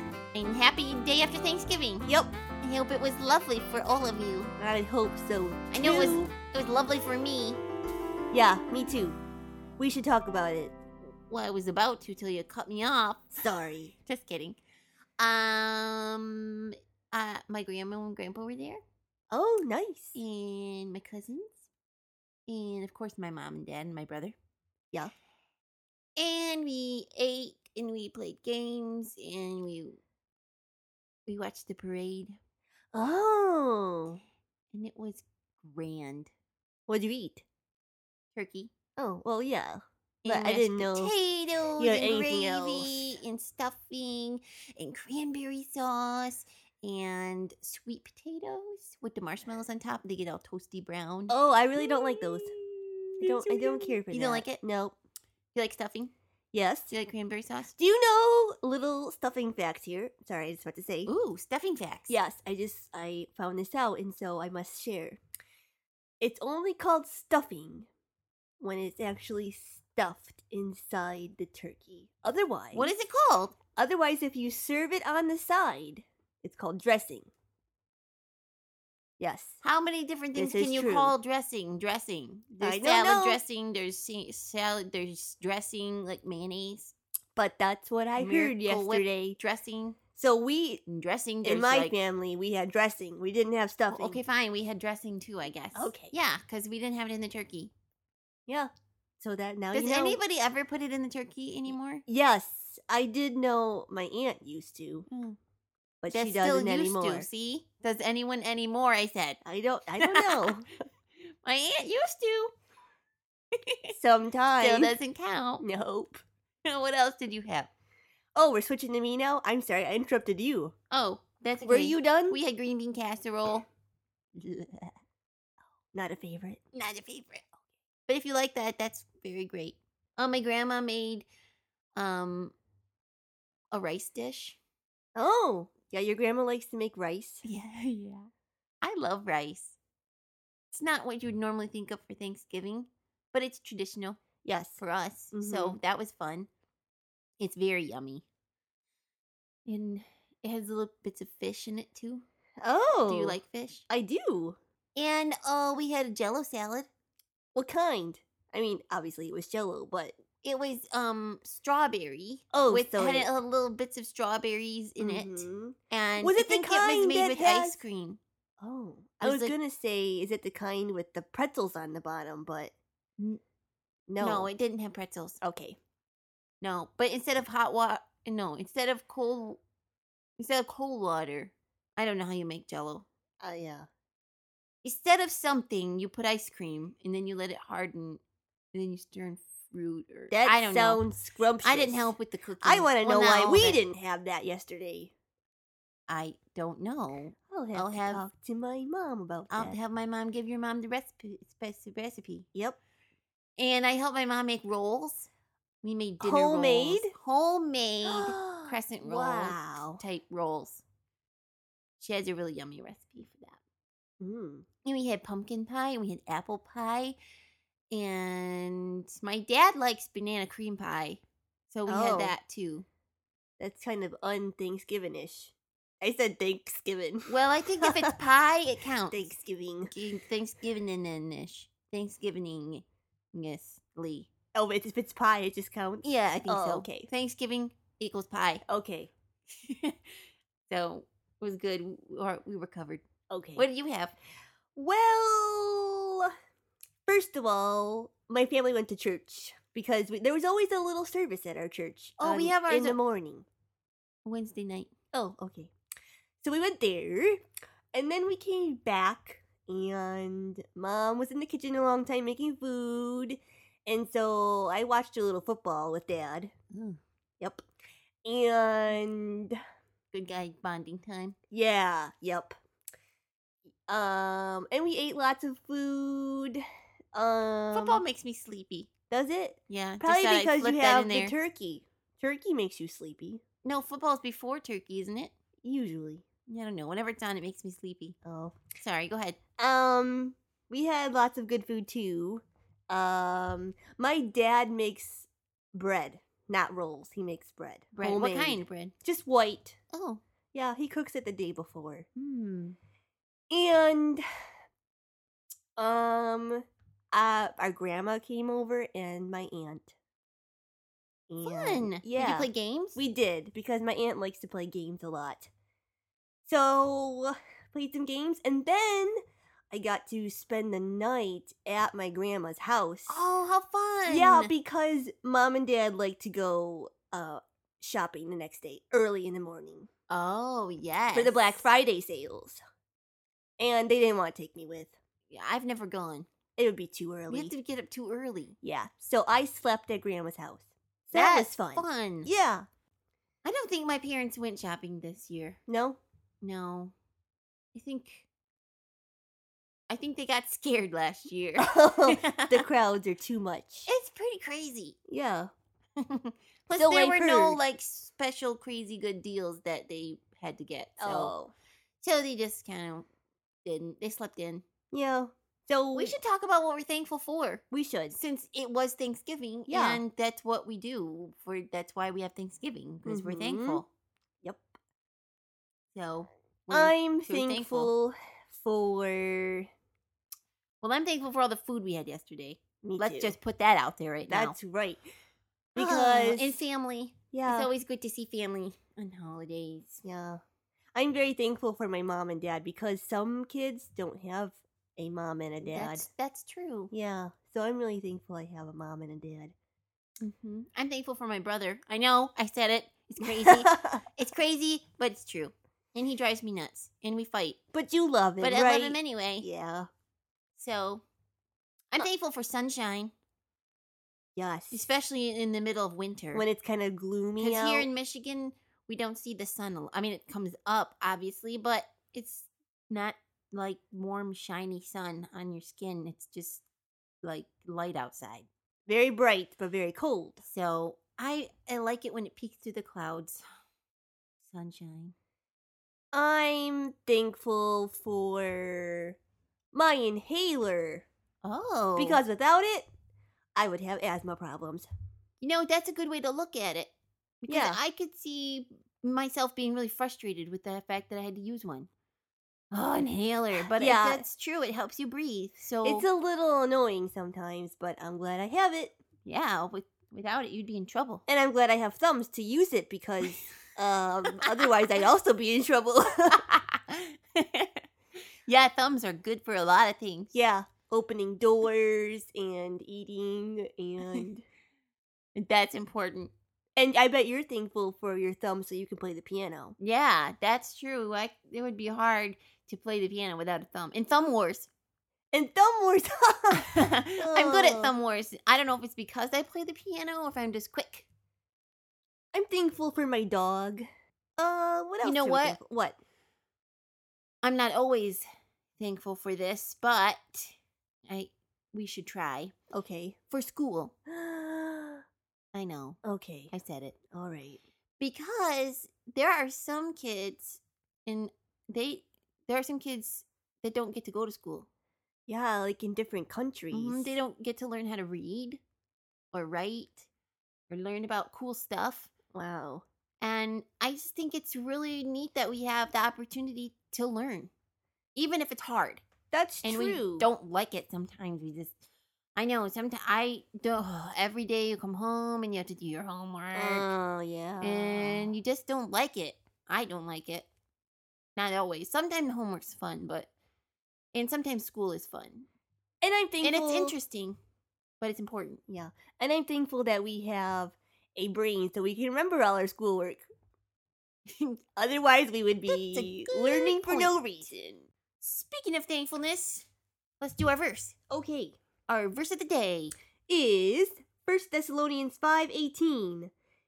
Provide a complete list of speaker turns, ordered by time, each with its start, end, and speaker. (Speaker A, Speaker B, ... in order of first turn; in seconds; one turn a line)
Speaker A: 0.3-2.1
Speaker B: 2.0-2.3
Speaker A: 2.6-4.5
Speaker B: 4.6-6.3
Speaker A: 5.7-7.6
Speaker B: 8.3-9.2
Speaker B: 9.8-10.8
Speaker A: 11.3-13.4
Speaker B: 13.4-13.9
Speaker A: 14.1-14.6
Speaker A: 15.2-18.8
Speaker B: 19.3-20.2
Speaker A: 20.1-21.7
Speaker A: 22.5-24.3
Speaker A: 26.2-30.0
Speaker A: 31.3-32.4
Speaker B: 32.9-34.2
Speaker A: 34.7-36.3
Speaker B: 36.9-37.5
Speaker A: 38.3-38.7
Speaker B: 39.0-41.1
Speaker A: 40.2-54.6
Speaker B: 41.8-43.2
Speaker B: 51.3-52.5
Speaker B: 53.2-54.9
Speaker A: 55.5-56.1
Speaker B: 56.5-56.9
Speaker A: 56.9-57.8
Speaker B: 57.8-61.1
Speaker A: 61.0-62.2
Speaker B: 62.1-65.2
Speaker B: 66.2-67.9
Speaker B: 68.6-72.9
Speaker A: 72.7-73.6
Speaker B: 73.8-77.3
Speaker B: 79.2-79.6
Speaker A: 79.6-86.9
Speaker B: 80.3-81.1
Speaker B: 82.6-83.4
Speaker B: 87.4-89.4
Speaker A: 88.2-90.0
Speaker B: 90.2-90.8
Speaker A: 90.9-91.9
Speaker B: 91.4-94.2
Speaker A: 93.9-97.7
Speaker B: 95.7-96.1
Speaker B: 98.5-100.2
Speaker A: 99.7-102.0
Speaker B: 102.1-105.1
Speaker A: 105.1-105.4
Speaker B: 106.0-107.3
Speaker A: 106.1-109.4
Speaker B: 109.4-110.7
Speaker A: 110.0-110.6
Speaker A: 111.4-112.5
Speaker A: 113.5-113.9
Speaker B: 113.9-115.0
Speaker A: 114.6-115.6
Speaker B: 115.6-116.2
Speaker A: 116.6-117.7
Speaker B: 118.3-120.7
Speaker A: 120.9-123.7
Speaker B: 121.6-122.4
Speaker B: 125.9-126.6
Speaker A: 126.7-127.5
Speaker A: 128.1-131.3
Speaker A: 132.0-132.5
Speaker A: 133.7-134.6
Speaker B: 135.2-137.4
Speaker A: 137.4-138.3
Speaker A: 138.8-139.8
Speaker A: 140.7-144.2
Speaker B: 144.4-144.8
Speaker A: 144.8-146.5
Speaker B: 145.3-145.8
Speaker A: 147.4-148.2
Speaker A: 149.7-152.2
Speaker B: 152.6-154.6
Speaker A: 153.1-153.8
Speaker A: 155.0-156.9
Speaker B: 157.6-160.2
Speaker A: 160.4-168.2
Speaker B: 162.5-163.3
Speaker B: 165.0-167.8
Speaker B: 168.6-172.7
Speaker A: 169.2-169.6
Speaker B: 174.1-174.5
Speaker A: 174.2-175.4
Speaker B: 175.4-175.8
Speaker A: 176.6-179.6
Speaker A: 180.4-183.1
Speaker B: 183.4-183.9
Speaker A: 184.8-188.2
Speaker A: 188.7-191.0
Speaker B: 190.3-195.1
Speaker A: 191.6-193.8
Speaker A: 196.1-198.2
Speaker B: 197.5-199.8
Speaker A: 199.5-202.5
Speaker B: 202.5-202.8
Speaker A: 203.6-205.3
Speaker A: 205.8-210.8
Speaker B: 206.2-207.1
Speaker B: 208.1-210.0
Speaker A: 212.0-213.6
Speaker B: 214.2-214.7
Speaker A: 214.8-217.2
Speaker A: 217.9-222.9
Speaker B: 221.9-222.4
Speaker B: 223.6-228.1
Speaker A: 227.3-229.3
Speaker B: 229.1-229.9
Speaker A: 229.9-234.3
Speaker B: 234.5-237.1
Speaker A: 236.0-238.6
Speaker B: 238.7-239.1
Speaker A: 239.6-240.1
Speaker A: 240.7-243.0
Speaker B: 243.3-243.7
Speaker A: 243.6-244.2
Speaker B: 244.8-246.3
Speaker B: 247.1-253.5
Speaker A: 252.2-253.0
Speaker A: 254.2-254.9
Speaker B: 255.1-255.7
Speaker B: 256.4-257.4
Speaker B: 257.9-266.5
Speaker A: 266.7-267.0
Speaker B: 267.4-267.6
Speaker B: 268.2-269.6
Speaker A: 270.1-271.4
Speaker B: 271.5-272.5
Speaker B: 273.9-276.6
Speaker B: 277.1-278.0
Speaker A: 277.7-278.9
Speaker B: 279.1-283.4
Speaker A: 279.7-281.4
Speaker A: 283.6-285.3
Speaker B: 285.6-286.2
Speaker A: 286.5-288.1
Speaker B: 288.2-288.6
Speaker A: 288.8-289.4
Speaker B: 289.6-299.8
Speaker A: 297.9-298.9
Speaker A: 299.9-300.2
Speaker B: 300.5-302.1
Speaker A: 302.1-302.8
Speaker B: 303.5-304.2
Speaker B: 305.8-309.9
Speaker B: 311.3-315.5
Speaker A: 311.4-313.0
Speaker B: 316.4-319.2
Speaker B: 319.7-323.2
Speaker A: 323.1-324.5
Speaker B: 324.1-329.9
Speaker A: 330.1-331.4
Speaker B: 331.1-332.6
Speaker B: 333.6-334.9
Speaker A: 335.3-336.3
Speaker B: 336.6-337.5
Speaker A: 337.3-338.5
Speaker B: 338.6-342.6
Speaker A: 341.1-342.3
Speaker A: 343.4-345.6
Speaker B: 345.7-346.0
Speaker A: 346.4-346.9
Speaker A: 347.8-348.3
Speaker A: 349.9-352.6
Speaker B: 351.6-353.9
Speaker A: 353.9-354.9
Speaker B: 355.1-355.5
Speaker A: 356.0-361.3
Speaker B: 356.7-357.6
Speaker B: 361.0-361.5
Speaker A: 362.0-363.1
Speaker A: 363.6-364.6
Speaker B: 364.9-366.2
Speaker A: 365.9-373.9
Speaker B: 367.7-368.2
Speaker B: 369.7-370.0
Speaker B: 373.1-373.8
Speaker A: 375.9-377.9
Speaker B: 376.7-379.7
Speaker A: 380.8-384.5
Speaker B: 382.8-383.3
Speaker B: 384.3-385.0
Speaker B: 385.8-386.6
Speaker A: 385.8-390.0
Speaker B: 387.3-387.7
Speaker B: 390.0-390.4
Speaker B: 390.9-396.1
Speaker A: 395.6-396.9
Speaker B: 396.9-399.5
Speaker A: 400.2-407.6
Speaker B: 403.2-404.0
Speaker B: 407.7-409.9
Speaker A: 408.4-409.5
Speaker A: 410.6-411.0
Speaker A: 411.9-413.1
Speaker B: 414.4-414.8
Speaker A: 414.7-416.4
Speaker B: 416.3-417.9
Speaker A: 417.4-426.6
Speaker A: 427.2-428.5
Speaker B: 428.9-430.4
Speaker A: 430.4-433.4
Speaker A: 434.4-435.1
Speaker B: 436.1-439.2
Speaker B: 439.7-441.1
Speaker A: 441.4-442.2
Speaker B: 442.0-442.9
Speaker B: 443.6-444.9
Speaker A: 445.4-451.9
Speaker B: 447.5-447.8
Speaker A: 452.7-456.0
Speaker B: 453.7-454.2
Speaker B: 455.8-458.9
Speaker A: 459.2-461.2
Speaker B: 461.3-466.4
Speaker A: 464.4-464.7
Speaker A: 466.4-467.8
Speaker A: 468.4-470.3
Speaker B: 470.3-474.4
Speaker A: 475.4-476.3
Speaker B: 476.8-479.8
Speaker A: 479.8-484.7
Speaker B: 485.3-487.9
Speaker A: 486.6-491.1
Speaker B: 492.3-493.8
Speaker B: 494.4-495.9
Speaker A: 495.0-495.6
Speaker A: 497.4-498.2
Speaker A: 498.8-500.5
Speaker A: 501.1-502.5
Speaker B: 502.7-503.2
Speaker A: 503.3-503.9
Speaker B: 504.1-505.0
Speaker A: 505.5-506.0
Speaker B: 506.0-506.5
Speaker A: 506.5-506.9
Speaker B: 507.1-507.6
Speaker A: 508.0-514.7
Speaker B: 515.3-517.2
Speaker A: 516.7-518.6
Speaker A: 519.3-520.1
Speaker A: 520.7-522.1
Speaker B: 522.3-522.8
Speaker A: 523.2-527.5
Speaker A: 528.1-529.0
Speaker B: 529.3-530.3
Speaker A: 529.6-531.8
Speaker A: 532.4-536.9
Speaker B: 536.5-538.4
Speaker A: 537.6-540.5
Speaker A: 541.4-543.3
Speaker A: 544.1-545.5
Speaker B: 546.0-547.0
Speaker A: 546.4-547.4
Speaker A: 548.0-548.6
Speaker B: 548.7-553.2
Speaker A: 554.3-554.6
Speaker B: 554.8-557.9
Speaker A: 555.7-557.5
Speaker A: 558.2-559.7
Speaker A: 560.2-561.0
Speaker B: 561.1-561.5
Speaker A: 561.9-562.9
Speaker B: 563.3-566.3